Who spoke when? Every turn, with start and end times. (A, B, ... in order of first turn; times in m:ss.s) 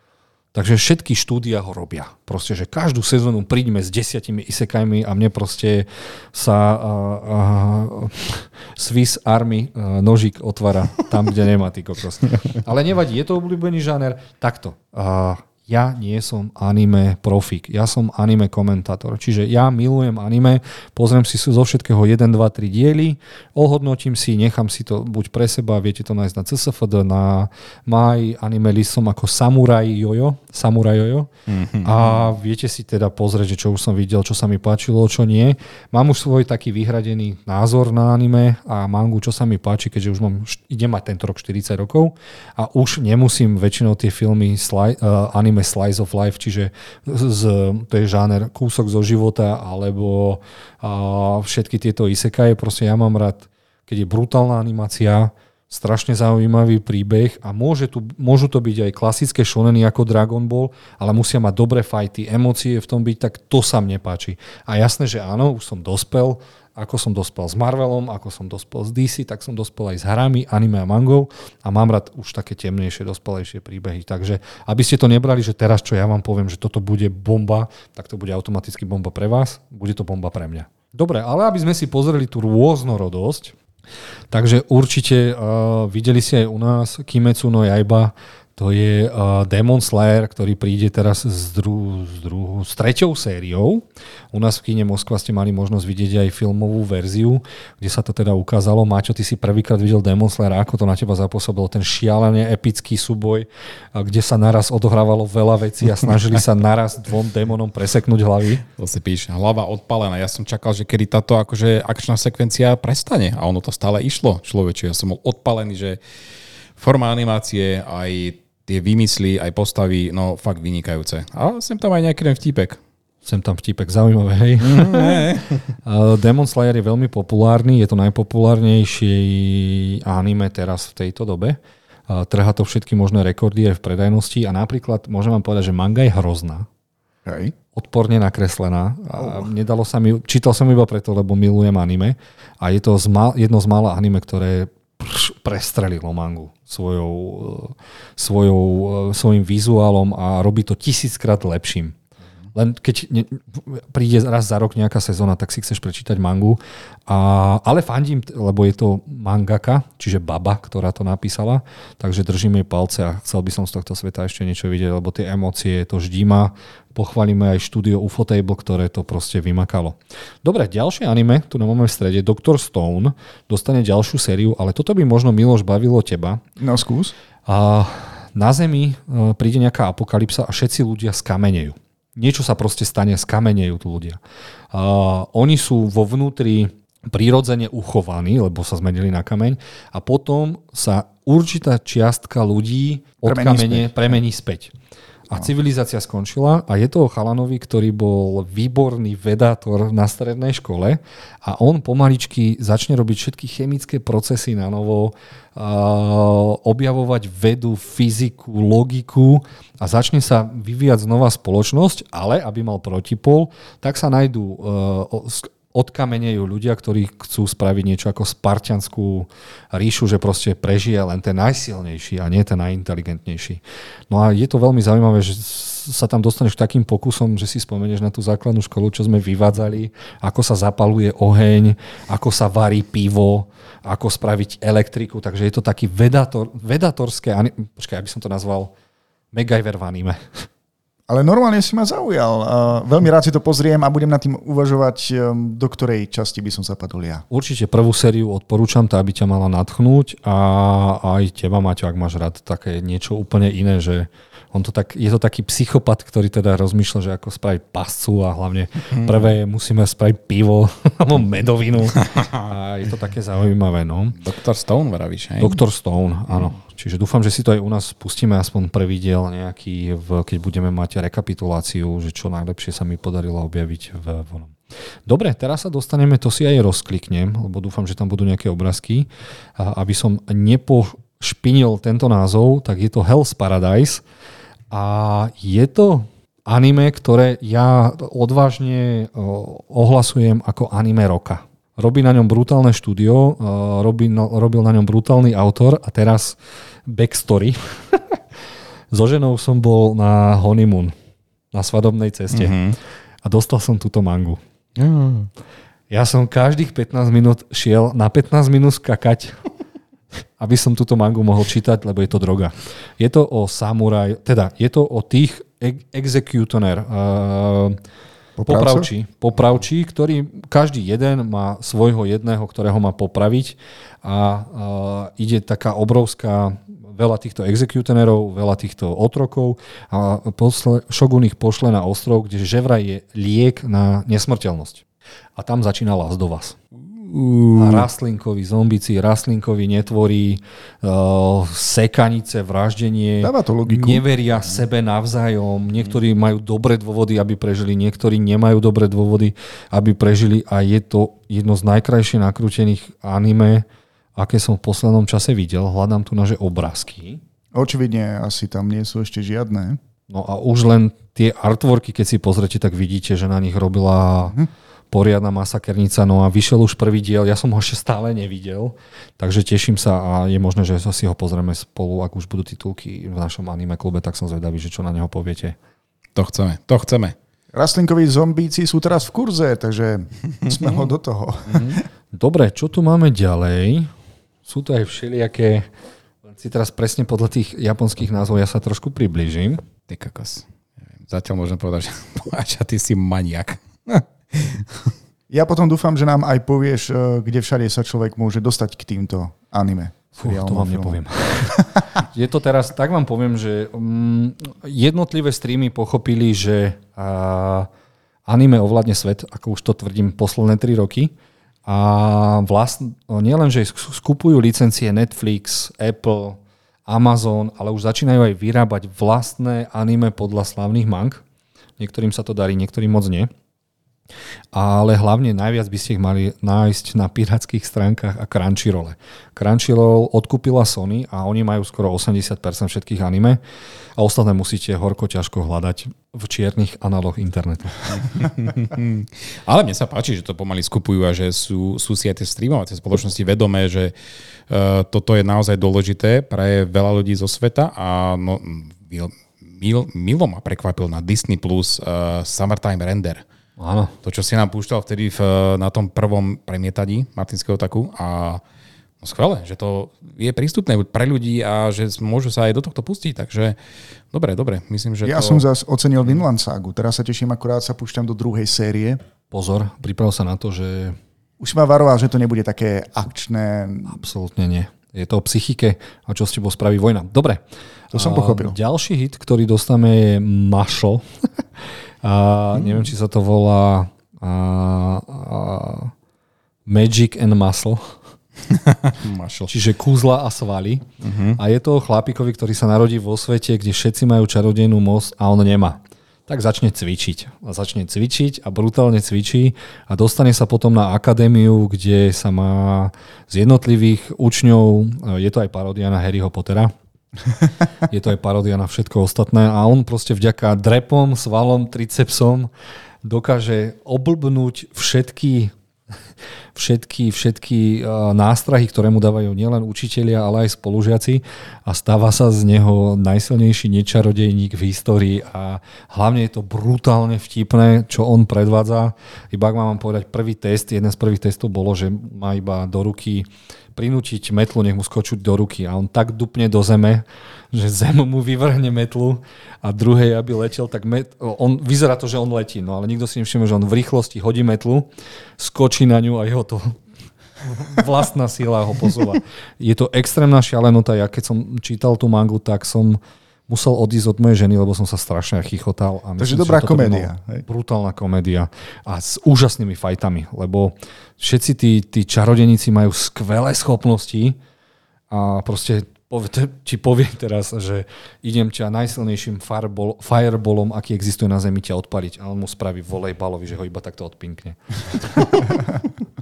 0:00.5-0:31.3 A
0:31.5-0:32.3 B
0:31.8-1:23.6 A
1:24.3-1:48.6 A
1:48.8-1:56.0 B
1:56.8-2:02.8 B
2:03.2-2:16.7 A
2:04.6-2:05.7 B
2:17.2-2:17.6 C
2:17.7-2:32.0 A
2:19.2-2:19.5 C
2:32.5-2:56.4 A
2:56.6-2:57.1 C
2:57.5-3:04.2 A
3:04.7-3:14.7 A
3:13.2-3:14.2 C
3:15.3-3:58.7 A
3:59.3-4:00.5 A
4:01.1-4:07.2 C
4:07.3-4:24.2 A
4:19.0-4:19.2 B
4:22.1-4:22.4 B
4:24.2-4:25.6 B
4:25.4-4:34.6 A
4:35.1-4:44.0 A
4:44.7-4:58.2 A
4:58.9-5:00.9 A
5:01.5-5:02.6 A
5:02.3-5:02.8 B
5:03.2-5:04.4 A
5:04.8-5:05.3 B
5:05.9-5:09.4 A
5:10.4-5:17.8 A
5:18.4-5:18.9 C
5:18.5-5:34.8 A
5:35.4-5:36.6 A
5:36.9-5:37.9 B
5:37.6-5:53.6 A
5:43.2-5:44.0 C
5:54.2-5:57.2 A
5:57.6-5:59.8 C
6:00.1-6:04.4 A
6:04.9-6:15.6 A
6:16.2-6:17.2 B
6:17.5-6:21.8 C
6:20.5-6:20.8 B
6:21.5-6:21.8 B
6:22.1-6:23.9 A
6:24.4-6:25.7 A
6:26.2-6:29.6 A
6:29.9-6:30.5 B
6:31.0-6:34.9 B
6:35.3-6:41.0 C
6:40.2-6:47.7 A
6:41.5-6:41.9 C
6:48.3-6:51.1 A
6:51.7-7:01.2 A
7:01.8-7:03.3 A
7:04.5-7:13.4 A
7:14.0-7:18.0 A
7:17.9-7:23.9 B
7:24.5-7:33.2 B
7:33.6-7:33.9 A
7:34.0-7:38.4 B
7:39.0-7:43.6 B
7:44.1-7:45.4 B
7:45.0-7:49.0 C
7:49.3-7:51.0 A
7:51.4-7:54.0 C
7:53.9-8:01.3 A
7:57.9-7:58.6 C
8:02.0-8:05.9 A
8:06.7-8:08.0 A
8:08.5-8:09.5 B
8:09.5-8:10.9 A
8:11.0-8:11.4 B
8:11.4-8:26.7 A
8:27.8-8:32.5 A
8:33.0-8:35.5 A
8:36.6-9:06.8 A
9:07.4-9:24.4 A
9:16.2-9:17.4 C
9:25.1-9:35.5 A